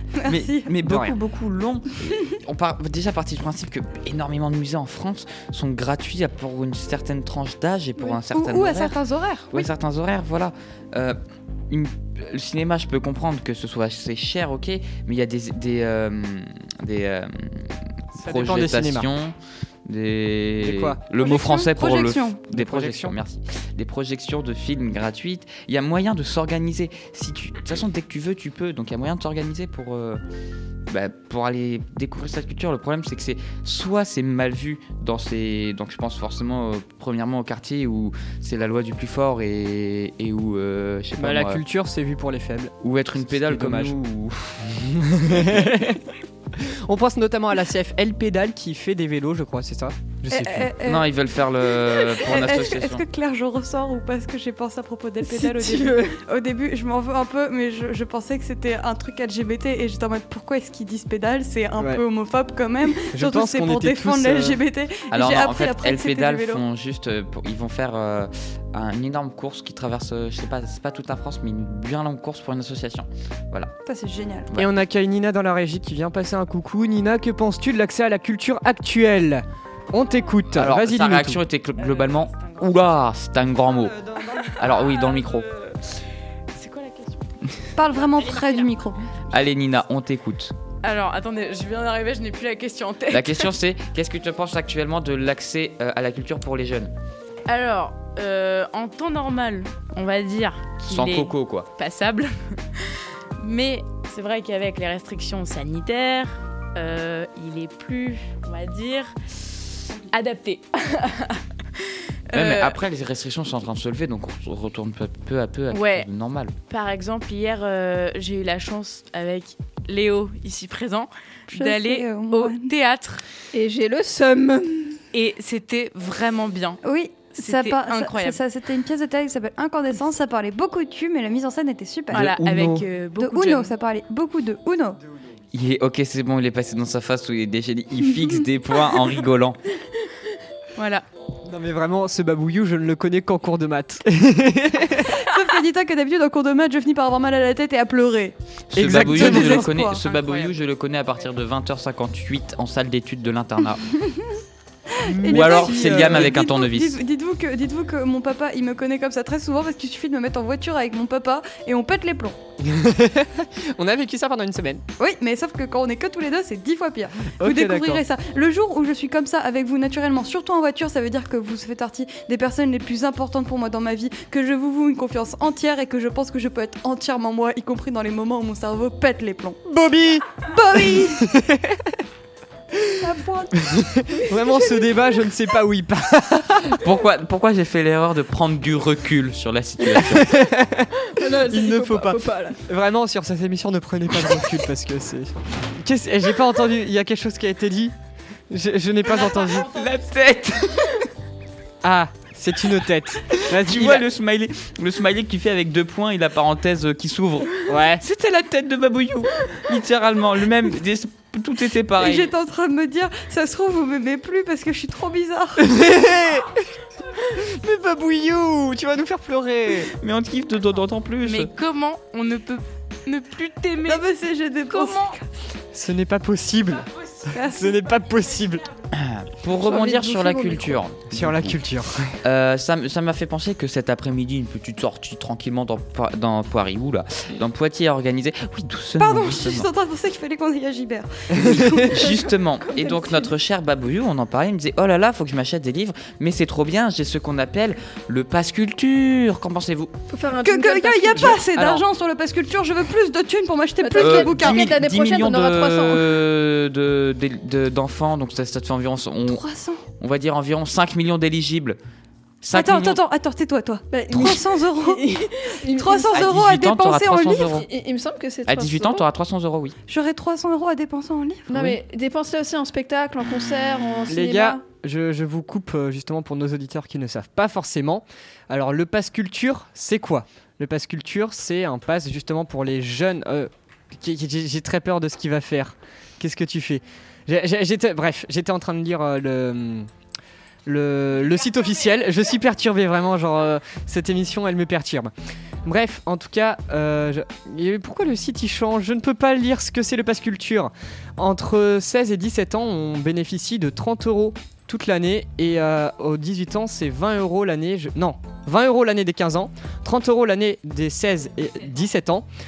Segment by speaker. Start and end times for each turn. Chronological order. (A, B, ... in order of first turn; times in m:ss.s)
0:00.2-0:00.7 A
0:00.3-0:09.0 B
0:00.8-0:01.2 C
0:08.0-0:09.7 A
0:09.5-0:11.2 B
0:11.7-0:19.4 B
0:18.2-0:19.1 C
0:19.9-0:30.2 B
0:20.6-0:21.0 C
0:21.2-0:22.4 A
0:22.5-0:23.2 C
0:30.9-0:41.6 B
0:41.2-0:44.0 C
0:42.8-0:45.5 B
0:44.9-0:46.0 C
0:46.5-0:50.7 C
0:50.4-0:51.1 A
0:50.8-0:53.0 B
0:51.7-1:06.6 A
0:55.3-0:56.2 D
1:03.1-1:04.6 C
1:05.1-1:13.7 B
1:13.9-1:14.5 A
1:14.6-1:21.4 C
1:20.6-1:23.9 B
1:21.8-1:23.0 E
1:23.7-1:24.7 C
1:24.4-1:25.9 E
1:24.5-1:25.5 B
1:26.5-1:27.2 E
1:27.8-1:29.0 A
1:28.0-1:28.6 E
1:29.3-1:30.5 B
1:30.8-1:33.5 E
1:33.1-1:36.9 B
1:37.5-1:49.1 E
1:40.8-1:41.7 B
1:49.8-1:52.8 E
1:52.3-1:56.5 B
1:55.7-1:56.1 E
1:56.7-2:03.2 E
2:01.5-2:02.7 A
2:03.5-2:05.0 D
2:05.1-2:06.8 E
2:06.8-2:12.4 A
2:07.4-2:08.4 E
2:12.1-2:12.8 C
2:12.1-2:13.7 E
2:13.2-2:15.0 A
2:15.5-2:19.6 B
2:20.8-2:21.0 E
2:21.4-2:25.2 C
2:25.1-2:30.0 A
2:28.7-2:33.8 B
2:28.7-2:29.7 C
2:30.0-2:30.6 E
2:34.9-2:42.4 A
2:35.0-2:36.4 C
2:35.3-2:37.0 B
2:42.6-2:44.8 C
2:45.0-2:59.6 A
2:47.4-2:48.0 C
2:59.7-3:02.0 C
3:00.4-3:01.3 A
3:03.0-3:03.8 A
3:03.6-3:06.8 C
3:06.7-3:10.4 B
3:09.8-3:17.9 C
3:11.1-3:12.6 D
3:18.5-3:19.7 C
3:19.2-3:20.0 E
3:19.4-3:21.0 B
3:21.8-3:24.1 C
3:23.3-3:32.3 B
3:27.7-3:28.0 C
3:32.0-3:35.7 A
3:35.6-3:36.7 C
3:37.2-3:39.9 C
3:40.0-3:41.5 B
3:41.2-3:44.1 E
3:43.9-3:45.2 A
3:44.7-3:45.2 E
3:45.7-3:48.7 C
3:47.3-3:47.7 A
3:48.9-3:51.6 B
3:49.6-3:50.8 D
3:51.1-3:52.2 C
3:52.2-3:59.7 B
3:59.0-4:02.2 A
4:01.4-4:09.9 B
4:02.0-4:03.3 D
4:10.1-4:11.4 D
4:10.4-4:14.8 A
4:11.6-4:11.8 B
4:13.8-4:16.1 D
4:14.0-4:19.4 B
4:19.3-4:19.8 A
4:20.0-4:21.8 B
4:22.4-4:23.0 B
4:22.5-4:25.0 A
4:23.9-4:26.2 D
4:25.7-4:27.5 A
4:26.1-4:27.7 B
4:27.5-4:29.1 D
4:28.5-4:29.8 B
4:29.9-4:31.6 A
4:31.5-4:34.6 D
4:34.1-4:49.9 C
4:50.7-4:55.1 C
4:55.6-5:12.3 C